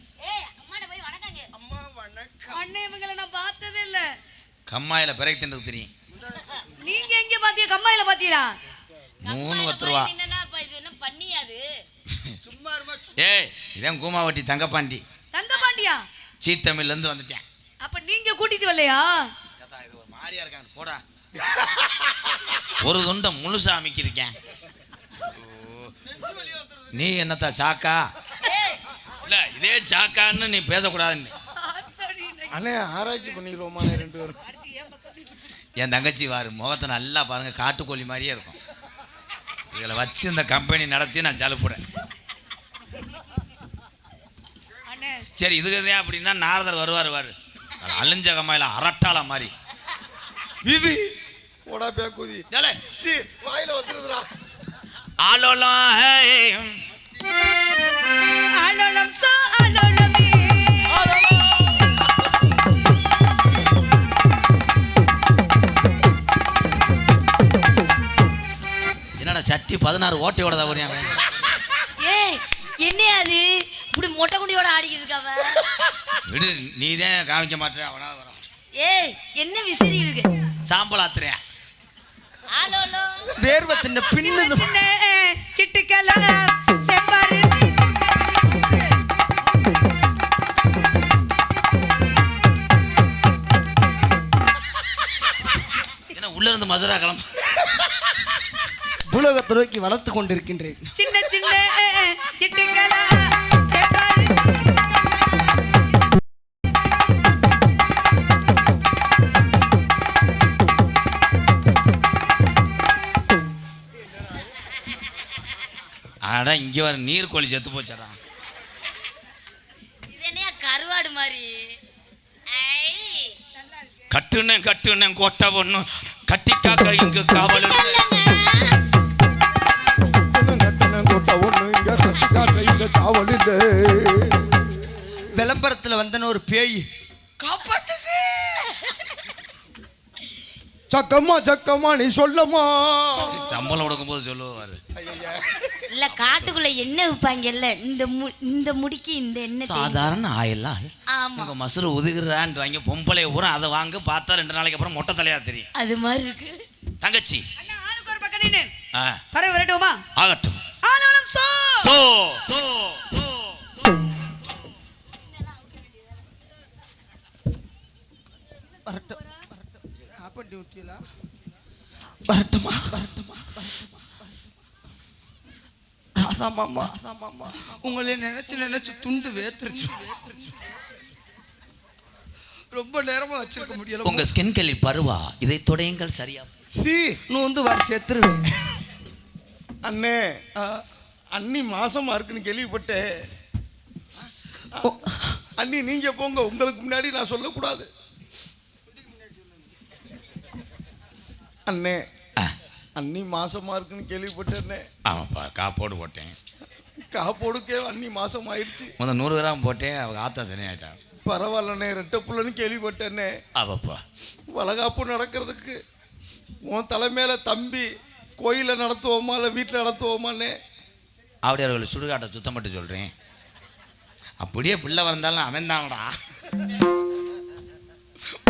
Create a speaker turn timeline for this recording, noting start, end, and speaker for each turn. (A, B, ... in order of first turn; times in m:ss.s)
0:00.2-0:01.5 A
0:01.5-0:02.6 B
0:02.5-0:04.1 C
0:04.7-0:05.9 D
0:06.1-0:06.6 B
0:06.8-0:08.6 C
0:09.2-0:10.1 D
0:09.2-0:11.6 A
0:12.1-0:12.4 D
0:12.4-0:13.2 B
0:13.2-0:15.0 D
0:15.3-0:16.0 C
0:16.4-0:17.4 D
0:17.8-0:19.3 C
0:19.6-0:21.0 D
0:22.7-0:24.3 D
0:25.3-0:25.9 D
0:26.2-0:26.6 B
0:26.9-0:28.0 D
0:28.5-0:28.8 A
0:29.2-0:31.3 D
0:31.6-0:32.6 C
0:32.5-0:34.4 E
0:34.4-0:35.4 C
0:35.8-0:38.6 D
0:39.7-0:41.8 D
0:44.9-0:45.2 C
0:45.4-0:49.5 D
0:50.7-0:51.1 E
0:51.7-0:54.3 E
0:52.5-0:52.8 D
0:55.2-0:56.8 D
0:58.6-1:00.9 C
1:00.9-1:01.9 E
1:09.2-1:11.2 D
1:12.0-1:15.9 A
1:16.3-1:18.4 D
1:18.8-1:20.3 A
1:20.6-1:21.4 D
1:22.5-1:23.4 A
1:23.4-1:24.8 B
1:24.2-1:29.0 C
1:36.1-1:37.8 D
1:39.1-1:40.9 B
1:41.0-1:44.7 C
1:56.2-1:58.2 D
2:00.1-2:01.7 A
2:02.5-2:03.3 A
2:03.6-2:03.9 C
2:04.1-2:08.1 D
2:07.4-2:08.8 A
2:10.3-2:14.4 E
2:15.3-2:16.8 B
2:17.5-2:17.9 B
2:20.9-2:23.7 E
2:23.2-2:24.8 D
2:24.9-2:25.8 E
2:25.9-2:30.1 A
2:26.1-2:26.5 D
2:29.6-2:35.7 D
2:31.1-2:31.5 A
2:35.7-2:36.6 A
2:37.0-2:37.4 D
2:37.6-2:38.7 C
2:38.9-2:39.2 D
2:39.3-2:40.0 C
2:40.1-2:40.6 D
2:40.8-2:41.9 C
2:41.8-2:43.8 D
2:48.8-2:51.0 B
2:52.3-2:54.0 B
2:56.2-3:00.7 B
3:02.7-3:04.3 B
3:04.0-3:06.5 D
3:06.7-3:07.2 E
3:07.3-3:08.6 B
3:09.8-3:10.6 E
3:11.3-3:13.0 E
3:14.8-3:15.4 B
3:15.6-3:17.9 E
3:21.7-3:22.0 E
3:23.0-3:24.8 E
3:25.0-3:26.4 D
3:27.1-3:29.0 E
3:29.0-3:31.0 D
3:31.2-3:33.3 E
3:33.5-3:34.0 D
3:34.5-3:35.8 E
3:36.6-3:40.5 E
3:41.4-3:43.1 D
3:44.4-3:46.1 D